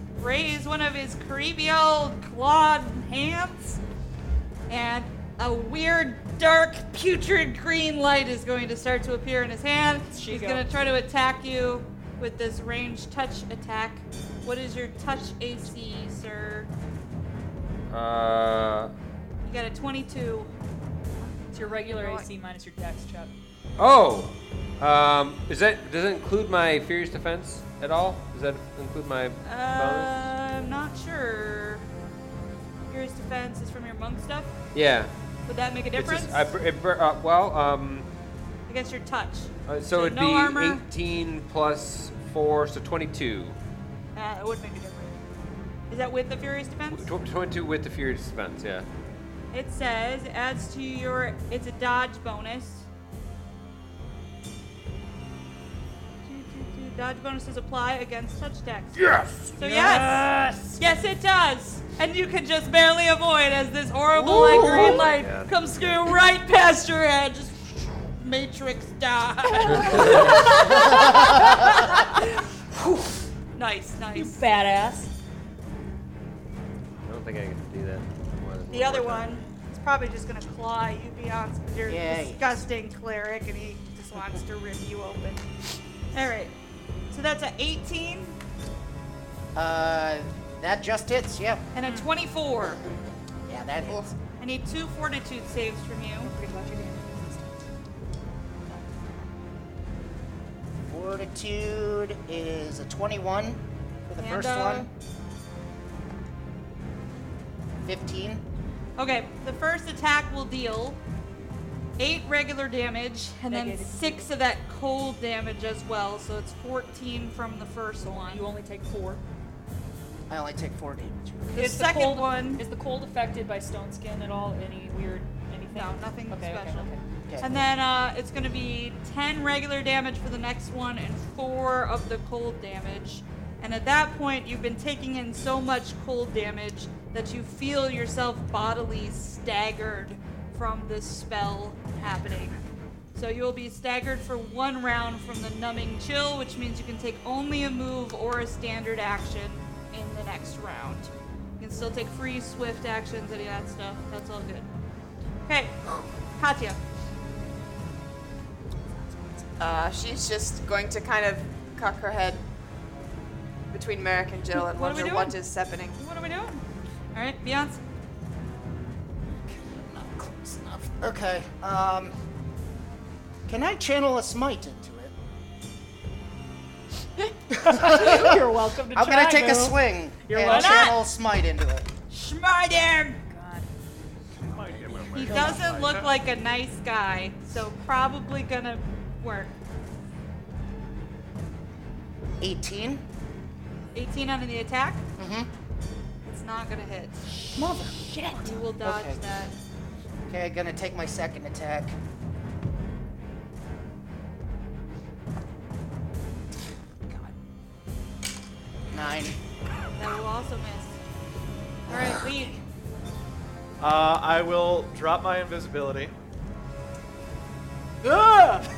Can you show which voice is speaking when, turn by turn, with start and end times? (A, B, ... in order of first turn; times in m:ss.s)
0:00.2-0:03.8 A
0:04.7-0:16.7 A
0:10.1-0:10.7 B
0:17.9-0:18.9 C
0:19.4-0:20.5 A
0:21.5-0:22.3 A
0:21.5-0:23.3 B
0:23.8-0:30.3 C
0:29.4-0:31.9 A
0:32.9-0:34.5 A
0:34.7-0:35.1 C
0:35.5-0:36.5 A
0:36.0-0:38.1 C
0:38.7-0:40.8 A
0:39.7-0:43.6 C
0:44.2-0:45.2 A
0:45.9-0:47.1 A
0:46.9-0:48.9 C
0:49.5-0:52.9 A
0:56.2-0:59.0 A
0:59.0-1:00.6 C
0:59.6-1:00.3 A
0:59.6-1:00.7 B
1:00.8-1:12.2 A
1:04.3-1:05.0 B
1:04.3-1:06.2 C
1:09.8-1:10.3 C
1:10.0-1:10.3 B
1:11.2-1:12.0 B
1:12.8-1:13.1 B
1:13.5-1:14.4 A
1:14.2-1:15.1 B
1:17.0-1:19.4 C
1:18.7-1:25.4 A
1:21.9-1:22.7 D
1:26.1-1:26.5 A
1:27.1-1:28.4 A
1:29.6-1:31.7 D
1:31.8-1:32.8 A
1:31.8-1:32.1 B
1:33.5-1:34.1 D
1:33.8-1:34.1 E
1:34.4-1:36.3 A
1:36.2-1:37.6 B
1:40.8-1:44.9 D
1:44.2-1:44.9 A
1:47.8-1:48.4 D
1:49.0-1:51.0 A
1:52.0-1:58.4 A
1:53.5-1:54.3 B
1:58.0-1:59.2 B
2:00.3-2:01.7 D
2:01.5-2:02.6 A
2:01.6-2:07.0 B
2:05.7-2:22.6 A
2:07.3-2:07.6 D
2:23.2-2:34.7 A
2:35.5-2:35.8 A
2:36.4-2:36.8 A
2:39.6-2:42.4 E
2:43.7-2:46.0 E
2:44.6-2:45.4 A
2:46.0-2:46.6 A
2:47.1-2:47.8 A
2:49.4-2:52.1 D
2:53.5-2:55.1 D
2:57.6-2:58.4 D
2:57.6-3:01.0 B
2:58.9-3:01.9 D
3:00.4-3:01.0 A
3:02.1-3:03.2 A
3:03.3-3:03.7 B
3:04.4-3:05.8 D
3:04.4-3:06.2 F
3:05.1-3:09.5 A
3:05.3-3:05.6 B
3:12.4-3:13.0 D
3:13.9-3:15.0 A
3:15.2-3:15.5 D
3:16.2-3:17.2 A
3:17.3-3:18.6 B
3:17.6-3:19.2 D
3:18.4-3:19.6 A
3:20.3-3:22.0 D
3:28.9-3:29.4 D
3:30.0-3:31.0 A
3:31.9-3:32.6 A
3:31.9-3:32.4 D
3:33.8-3:36.1 F
3:38.0-3:38.7 F